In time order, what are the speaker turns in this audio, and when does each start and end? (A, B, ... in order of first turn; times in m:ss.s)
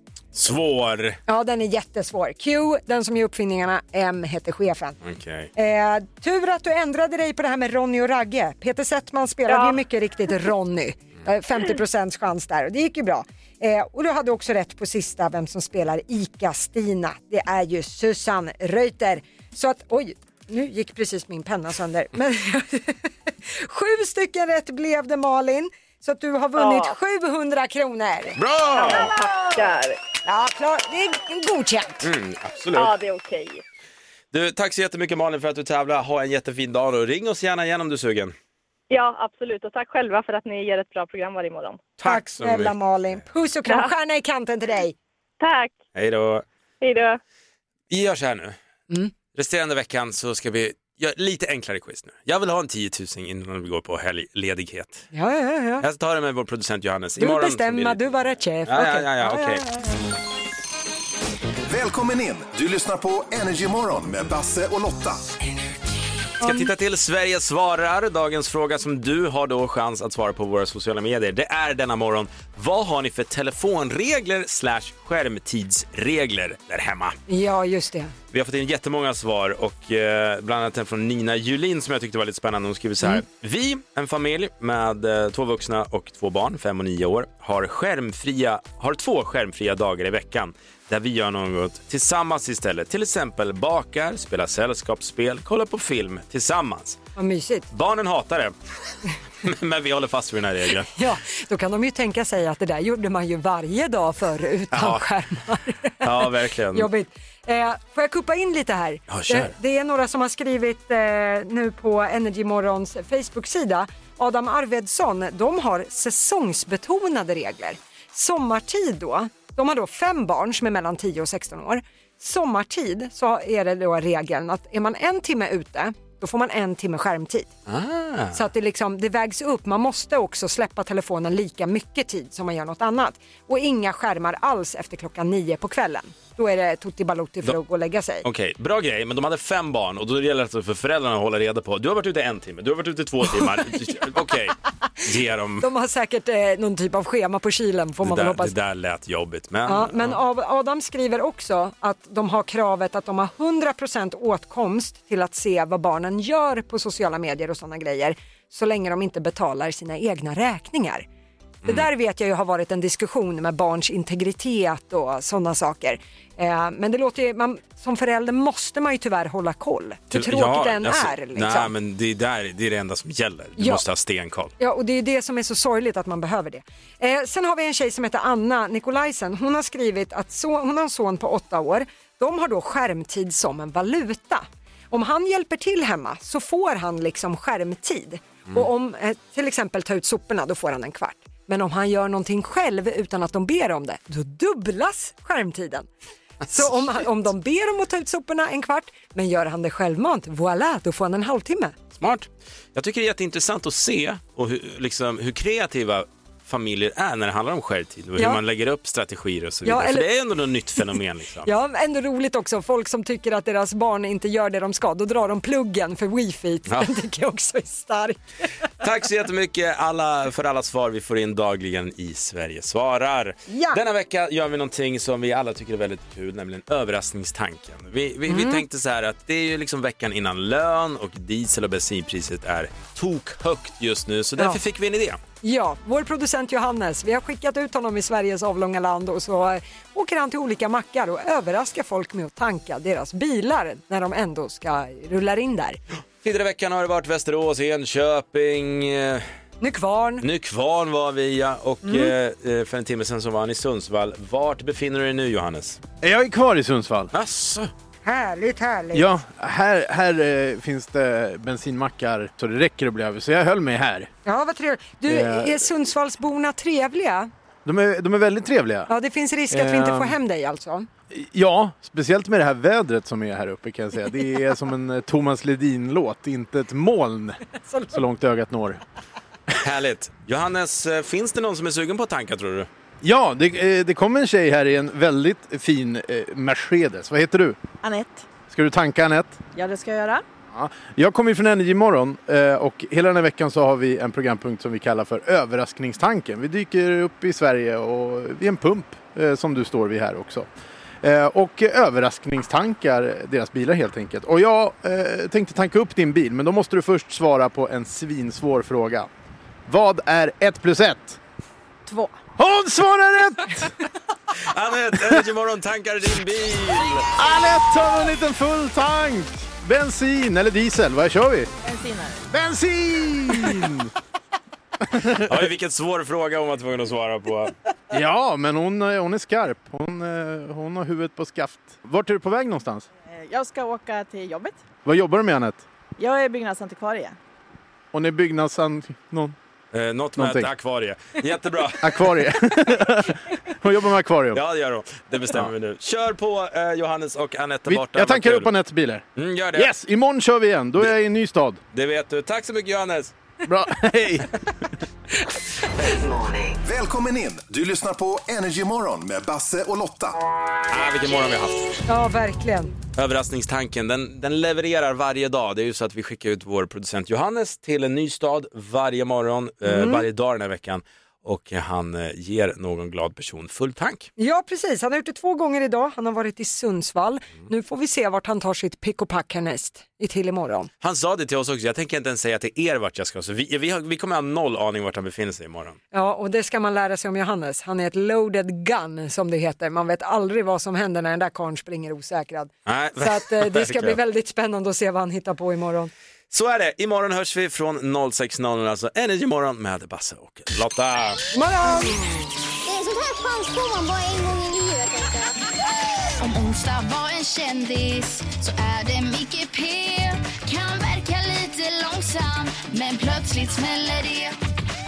0:00.3-0:01.2 A
0:01.3-0:05.0 B
0:05.0-0:05.5 A
0:05.6-0:28.4 B
0:09.5-0:09.8 C
0:26.6-0:26.9 C
0:28.4-0:29.1 A
0:28.7-0:30.0 C
0:29.0-0:29.6 B
0:30.2-0:32.0 B
0:32.0-0:32.9 A
0:32.7-0:33.6 C
0:34.3-0:38.3 A
0:38.9-0:41.9 C
0:42.0-0:42.7 A
0:42.0-0:45.0 B
0:45.4-0:45.8 C
0:45.9-0:46.4 A
0:46.8-0:47.2 C
0:47.9-0:48.6 A
0:49.3-0:55.1 A
0:55.1-0:55.8 B
0:55.8-0:58.1 A
0:57.2-1:00.0 B
0:58.6-0:59.6 A
1:01.7-1:05.2 D
1:06.4-1:17.2 A
1:06.4-1:06.7 B
1:17.3-1:18.1 B
1:18.3-1:37.0 A
1:37.2-1:37.7 B
1:37.7-1:38.5 A
1:39.4-1:40.9 A
1:40.9-2:07.5 B
1:44.7-1:45.0 A
1:46.0-1:46.9 A
1:49.1-1:49.5 A
2:07.7-2:08.4 A
2:08.3-2:18.2 B
2:18.2-2:25.6 A
2:25.6-2:28.5 B
2:28.0-2:30.2 A
2:29.6-2:41.0 B
2:41.6-2:51.7 B
2:50.1-2:54.5 A
2:53.6-2:53.8 B
2:54.6-3:15.9 B
3:16.4-3:21.7 B
3:22.0-3:31.5 A
3:29.6-3:30.1 B
3:31.4-3:38.5 B
3:36.7-3:37.0 A
3:38.8-3:55.2 A
3:43.5-3:43.8 B
3:48.3-3:48.6 B
3:55.4-4:05.8 B
4:06.2-4:09.2 A
4:09.6-4:10.2 B
4:10.2-4:15.8 A
4:11.8-4:12.1 B
4:16.0-4:17.1 E
4:17.1-4:17.7 A
4:18.0-4:19.1 B
4:18.9-4:24.1 E
4:24.2-4:27.3 B
4:25.1-4:25.6 E
4:27.6-4:28.9 E
4:28.9-4:30.9 B
4:29.5-4:30.2 E
4:31.1-4:37.4 E
4:37.7-4:37.9 B
4:37.9-4:38.8 E
4:39.6-4:42.7 A
4:43.0-4:47.6 E
4:47.8-4:48.3 F
4:48.5-4:49.4 E
4:49.5-4:50.2 F
4:50.5-5:00.5 E
5:01.0-5:09.1 E
5:09.7-5:11.2 E
5:11.9-5:12.2 F
5:12.4-5:13.7 E
5:14.4-5:17.1 A
5:17.1-5:21.5 E
5:21.6-5:22.2 F
5:22.3-5:23.9 E
5:24.9-5:25.4 E
5:25.2-5:27.5 A
5:27.9-5:32.8 E
5:33.0-5:34.6 F
5:34.8-5:35.6 E
5:36.0-5:37.2 F
5:37.9-5:39.3 E
5:39.7-5:42.2 A
5:40.2-5:40.5 E
5:41.8-5:44.4 E
5:44.3-5:48.5 A
5:47.7-5:51.6 E
5:49.2-5:49.7 A
5:51.7-5:53.1 A
5:53.4-5:54.3 E
5:56.6-6:00.2 D
6:00.7-6:01.8 A
6:01.9-6:02.7 B
6:03.0-6:14.1 A
6:09.6-6:10.0 B
6:14.2-6:20.7 B
6:20.8-6:25.8 A
6:25.9-6:35.9 B
6:32.6-6:34.0 A
6:36.3-6:41.2 A
6:41.3-6:42.1 B
6:42.7-6:45.3 G
6:46.2-6:54.3 H